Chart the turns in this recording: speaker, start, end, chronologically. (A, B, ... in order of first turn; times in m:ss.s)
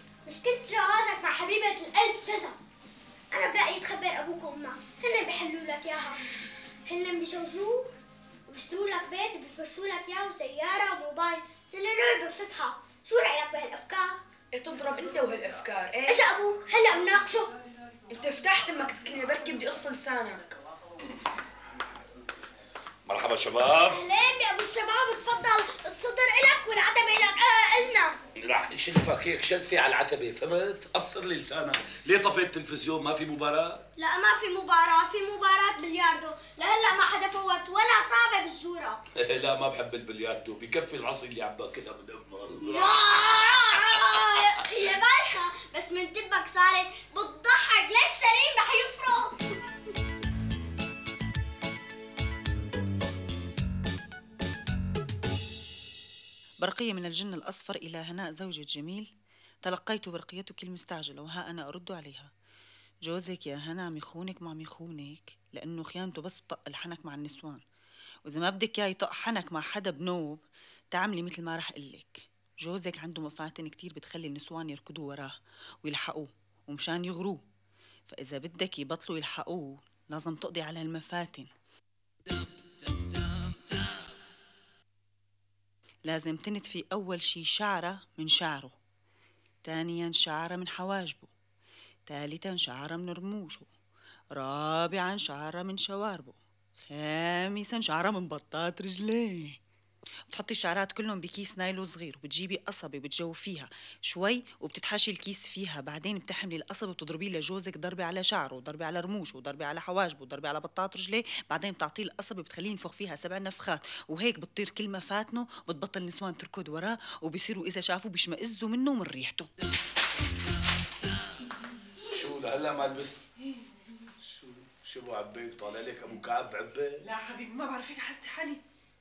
0:00.2-0:02.6 A
0:03.3-0:06.2 A
0:06.9-0:07.9 A
0:08.5-0:14.2 A
0:14.5-0:16.3 B
0:16.1-0:17.5 A
0:18.1-0:20.6 B
0:23.1-0:24.0 C
0:23.9-0:28.2 A
0:28.4-0:33.8 C
0:34.0-0:39.0 A
0:39.2-0:44.4 C
0:42.6-0:49.5 A
0:56.6-0:59.1 D
0:59.6-1:02.3 D
1:03.0-1:07.6 D
1:08.2-1:17.4 D
1:18.1-1:21.5 D
1:26.0-1:28.8 D
1:29.6-1:31.3 D
1:32.1-1:33.7 D
1:34.3-1:39.6 D
1:40.3-1:59.5 D
2:02.1-2:03.2 C
2:04.2-2:07.0 C
2:07.0-2:08.6 D